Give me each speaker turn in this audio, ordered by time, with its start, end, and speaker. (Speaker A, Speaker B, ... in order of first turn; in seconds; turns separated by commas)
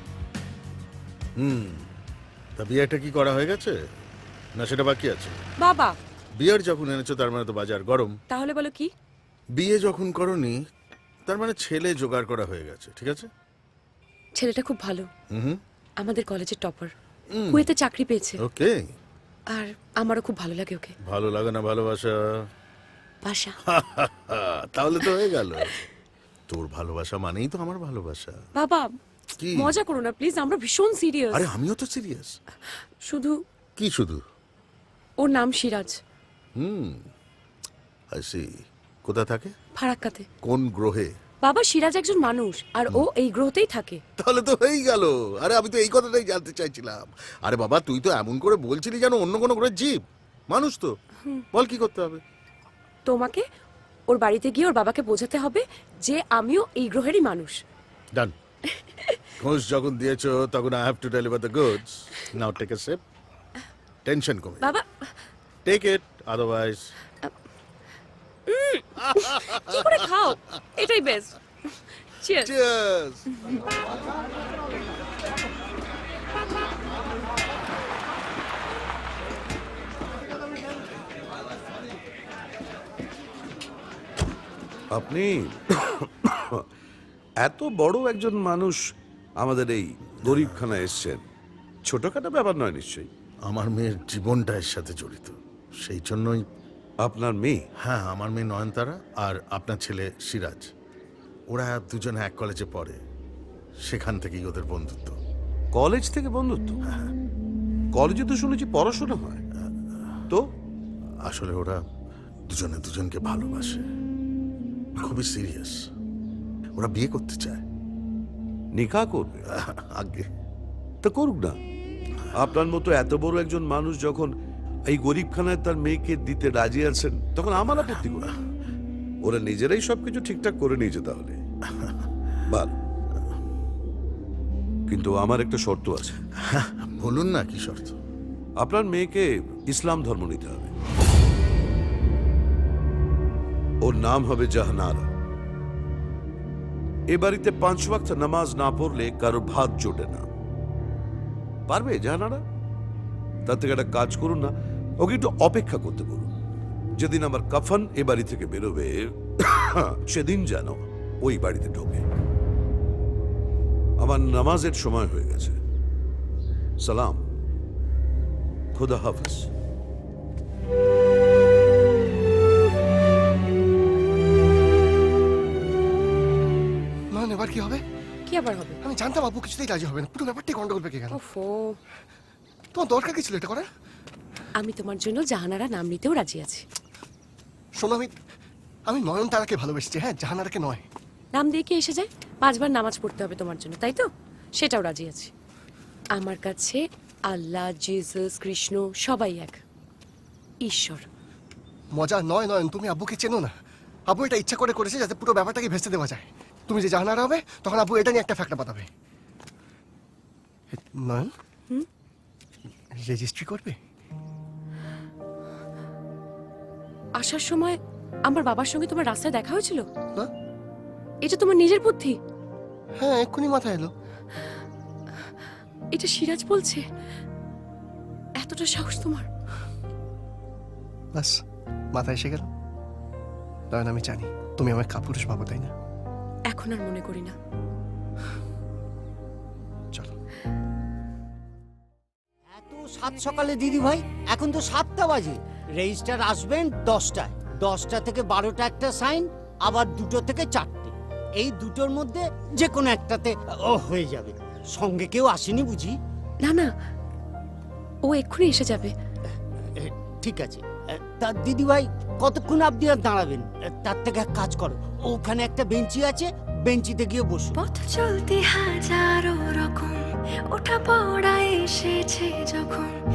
Speaker A: 1.4-1.9, Speaker A: 2.6-3.8, Speaker A: 4.6-5.4, Speaker B: 5.6-6.0, Speaker A: 6.4-8.2, Speaker B: 8.3-8.9, Speaker A: 9.6-10.6, Speaker A: 11.3-13.3, Speaker B: 14.4-15.1, Speaker A: 15.3-15.6, Speaker B: 16.0-16.9, Speaker A: 17.3-17.7, Speaker B: 17.5-18.4, Speaker A: 18.4-18.8, Speaker B: 19.5-20.9, Speaker A: 21.0-22.4, Speaker B: 23.2-23.6, Speaker A: 23.7-25.7, Speaker A: 26.5-28.4, Speaker B: 28.6-28.9, Speaker A: 29.4-29.7, Speaker B: 29.6-31.5, Speaker A: 31.3-32.4, Speaker B: 33.0-33.4, Speaker A: 33.8-34.2, Speaker B: 35.2-36.0, Speaker A: 36.6-37.0, Speaker A: 38.1-38.5, Speaker A: 39.0-39.5, Speaker B: 39.8-40.3, Speaker A: 40.4-41.1, Speaker B: 41.4-44.0, Speaker A: 44.2-50.9, Speaker A: 51.5-52.2, Speaker B: 53.1-53.4, Speaker B: 54.1-57.6, Speaker A: 59.4-63.0, Speaker A: 64.0-64.8, Speaker A: 65.7-66.9, Speaker B: 68.5-71.4, Speaker A: 69.1-70.0, Speaker B: 72.2-72.5, Speaker A: 72.4-73.3, Speaker C: 84.9-86.6, Speaker C: 87.4-88.8, Speaker C: 89.4-91.2, Speaker A: 90.2-90.8, Speaker C: 91.9-93.1, Speaker A: 93.5-96.4, Speaker C: 97.0-97.6, Speaker A: 97.8-100.7, Speaker A: 101.5-103.0, Speaker A: 103.8-105.2, Speaker C: 105.7-106.8, Speaker A: 106.9-107.1, Speaker C: 107.9-109.4, Speaker A: 109.6-110.2, Speaker A: 111.2-111.8, Speaker A: 112.5-113.9, Speaker A: 115.0-115.8, Speaker A: 116.8-117.6, Speaker C: 118.8-119.5, Speaker A: 119.5-120.3, Speaker C: 121.0-121.6, Speaker C: 122.3-124.3, Speaker C: 124.9-128.4, Speaker C: 129.2-131.4, Speaker A: 131.7-132.1, Speaker C: 134.9-136.2, Speaker A: 136.5-137.9, Speaker C: 138.6-140.7, Speaker C: 143.8-145.1, Speaker C: 147.1-150.3, Speaker C: 151.7-152.4, Speaker C: 153.5-156.3, Speaker C: 157.0-162.0, Speaker C: 164.0-165.6, Speaker C: 166.8-167.2, Speaker C: 168.8-169.5, Speaker D: 177.1-177.8, Speaker B: 178.3-178.8, Speaker D: 178.8-181.2, Speaker B: 181.1-181.8, Speaker D: 182.7-183.7, Speaker B: 184.6-186.7, Speaker D: 187.8-188.2, Speaker D: 188.9-190.8, Speaker B: 191.3-194.1, Speaker B: 194.6-195.3, Speaker B: 196.2-199.6, Speaker B: 200.6-201.1, Speaker D: 201.9-203.5, Speaker D: 204.1-208.9, Speaker D: 210.7-211.3, Speaker D: 212.9-213.8, Speaker B: 217.2-219.9, Speaker B: 221.2-222.2, Speaker D: 223.0-223.9, Speaker B: 225.9-226.8, Speaker B: 228.4-229.3, Speaker D: 231.1-231.4, Speaker D: 231.9-232.5, Speaker D: 233.7-235.7, Speaker B: 236.5-237.3, Speaker E: 242.6-256.0, Speaker B: 256.4-256.7, Speaker B: 258.0-258.9, Speaker E: 259.8-267.6, Speaker F: 267.6-272.9